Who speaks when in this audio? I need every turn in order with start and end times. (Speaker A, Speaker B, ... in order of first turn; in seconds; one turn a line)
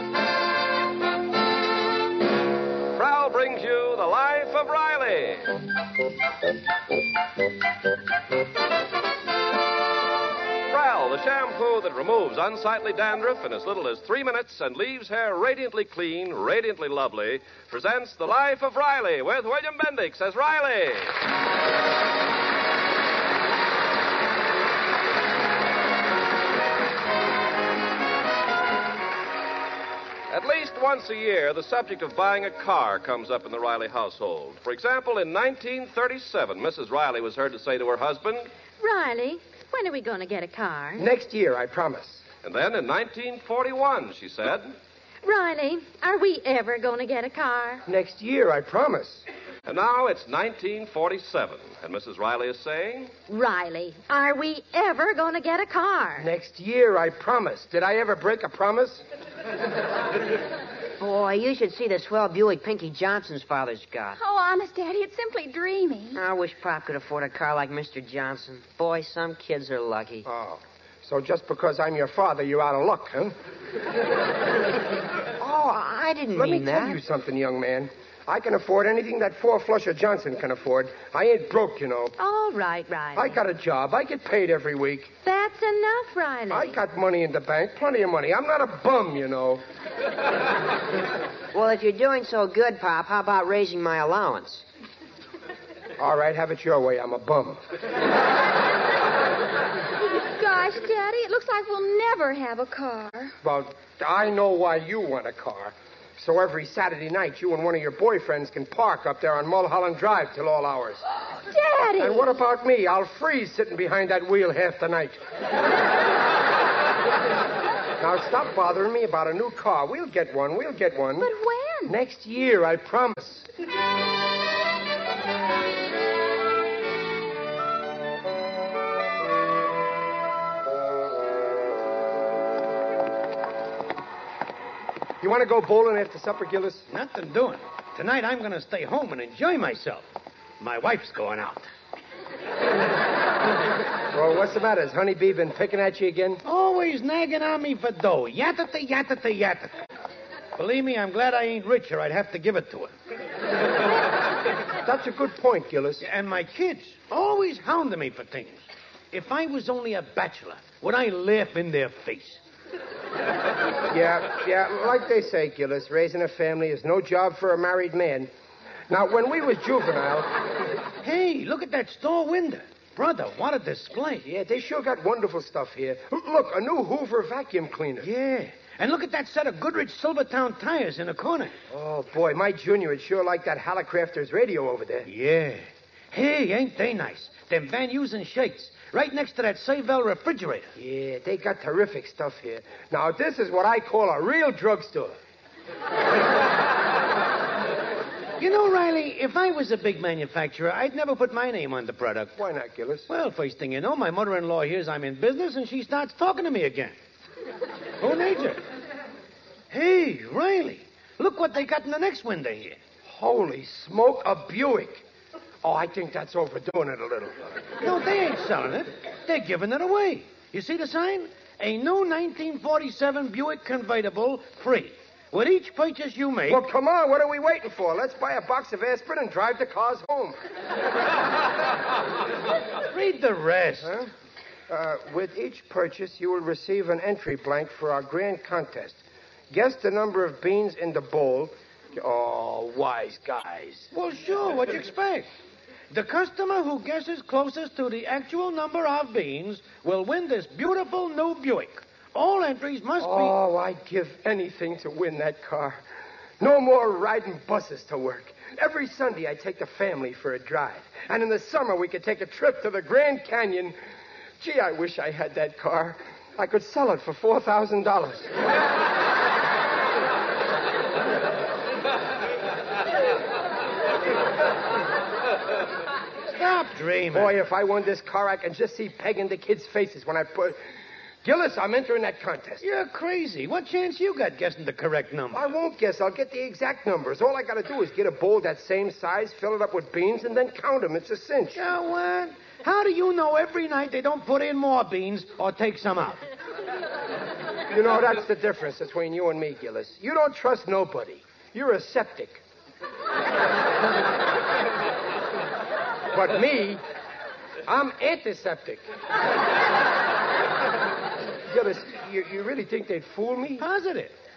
Speaker A: 2.9-5.6
Speaker A: 10.7-21.1
Speaker A: 30.3-38.5
Speaker B: 38.8-41.1
Speaker C: 41.0-42.2
Speaker A: 42.4-44.7
Speaker B: 45.2-47.8
Speaker C: 47.9-49.2
Speaker A: 49.6-53.1
Speaker B: 53.3-56.3
Speaker C: 56.2-59.0
Speaker D: 61.0-64.2
Speaker E: 64.2-66.2
Speaker D: 66.1-70.2
Speaker C: 70.2-73.3
Speaker D: 75.4-77.0
Speaker C: 76.3-82.1
Speaker B: 82.2-83.3
Speaker C: 83.1-85.1
Speaker B: 85.2-86.8
Speaker C: 86.5-89.6
Speaker D: 91.5-94.6
Speaker C: 96.0-97.6
Speaker E: 100.2-103.3
Speaker C: 103.4-111.0
Speaker E: 111.5-112.3
Speaker C: 112.0-115.2
Speaker C: 118.0-121.3
Speaker E: 121.2-121.9
Speaker C: 121.8-123.5
Speaker C: 135.2-136.9
Speaker F: 136.9-140.1
Speaker F: 140.6-141.7
Speaker C: 144.1-146.4
Speaker F: 146.4-149.7
Speaker F: 150.6-152.9
Speaker C: 154.8-156.0
Speaker F: 156.0-162.4
Speaker C: 163.9-168.3
Speaker C: 168.9-170.4
Speaker F: 171.0-174.2
Speaker C: 174.2-178.1
Speaker F: 178.0-181.5
Speaker C: 181.7-185.1
Speaker F: 185.1-190.7
Speaker C: 190.8-195.2
Speaker F: 198.4-202.3
Speaker C: 202.3-203.1
Speaker F: 203.1-207.0
Speaker F: 208.0-208.6
Speaker F: 209.7-212.8
Speaker C: 213.0-215.0
Speaker C: 215.6-217.5
Speaker F: 217.8-226.6
Speaker C: 226.5-230.4
Speaker F: 232.9-234.1
Speaker C: 234.7-243.9
Speaker F: 243.9-245.3
Speaker F: 245.9-253.3
Speaker C: 253.0-255.8
Speaker C: 256.4-263.8
Speaker C: 264.4-268.3
Speaker F: 276.3-277.4
Speaker C: 277.1-280.6
Speaker C: 281.2-282.6
Speaker F: 282.6-285.4
Speaker C: 285.3-291.6
Speaker F: 291.5-296.2
Speaker C: 297.7-302.4
Speaker C: 306.1-306.8
Speaker C: 307.6-308.8
Speaker C: 311.5-313.7
Speaker F: 313.6-314.1